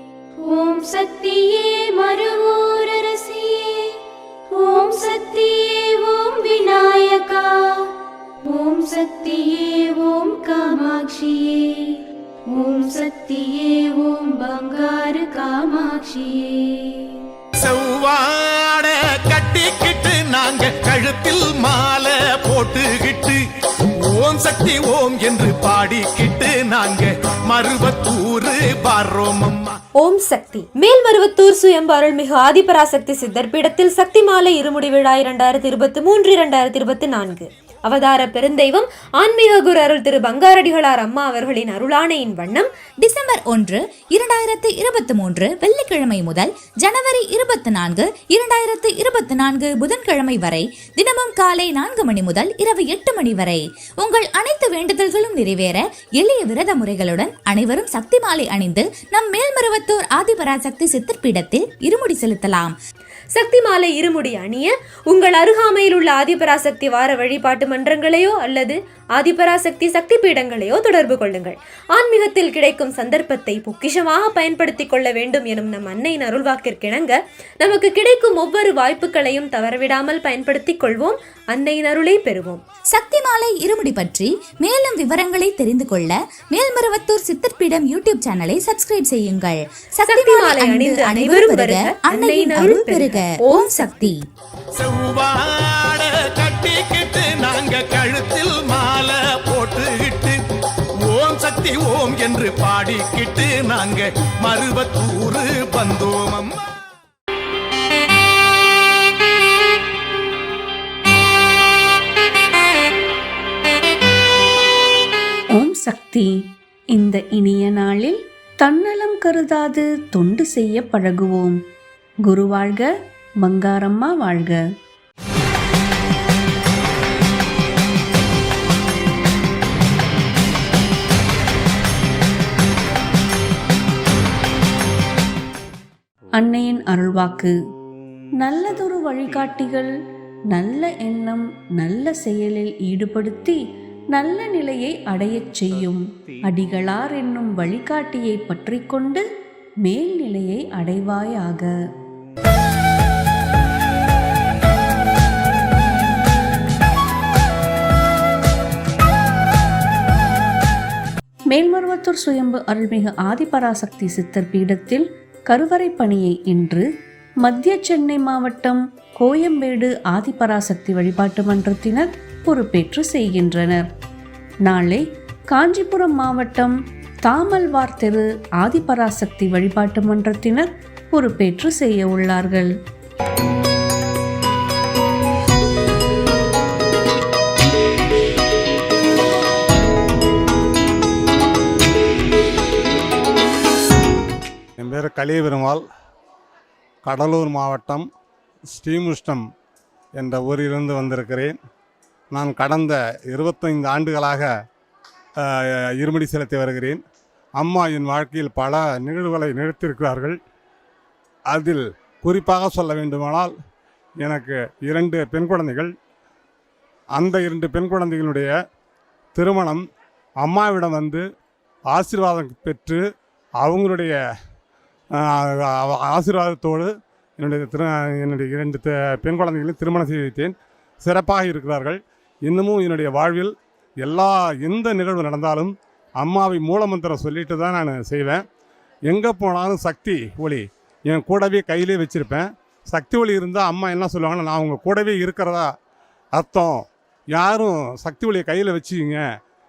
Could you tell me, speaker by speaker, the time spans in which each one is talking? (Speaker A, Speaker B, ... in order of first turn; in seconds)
Speaker A: 0.5-4.0, 4.5-7.9, 8.4-12.0, 12.5-17.2
Speaker B: 17.6-23.4, 24.1-29.8, 94.8-100.4, 101.1-106.6
Speaker C: 30.0-42.7, 63.3-82.6, 90.2-94.1
Speaker D: 43.0-62.8, 82.9-94.2
Speaker E: 115.5-116.3, 116.9-121.6, 122.2-122.9, 123.4-124.6, 136.4-137.5, 138.4-139.9, 140.5-143.6, 144.1-149.2, 149.8-151.7, 161.5-166.9, 167.4-173.8, 174.7-176.7, 177.3-182.7
Speaker F: 194.8-195.8, 197.0-198.1, 198.7-199.4, 200.2-201.6, 202.3-204.5, 205.4-207.0, 207.6-210.4, 211.5-213.5, 214.2-215.9, 217.2-218.5, 219.3-219.8, 220.4-221.2, 221.9-223.0, 223.6-224.2, 225.2-238.4, 239.1-245.7, 246.3-249.2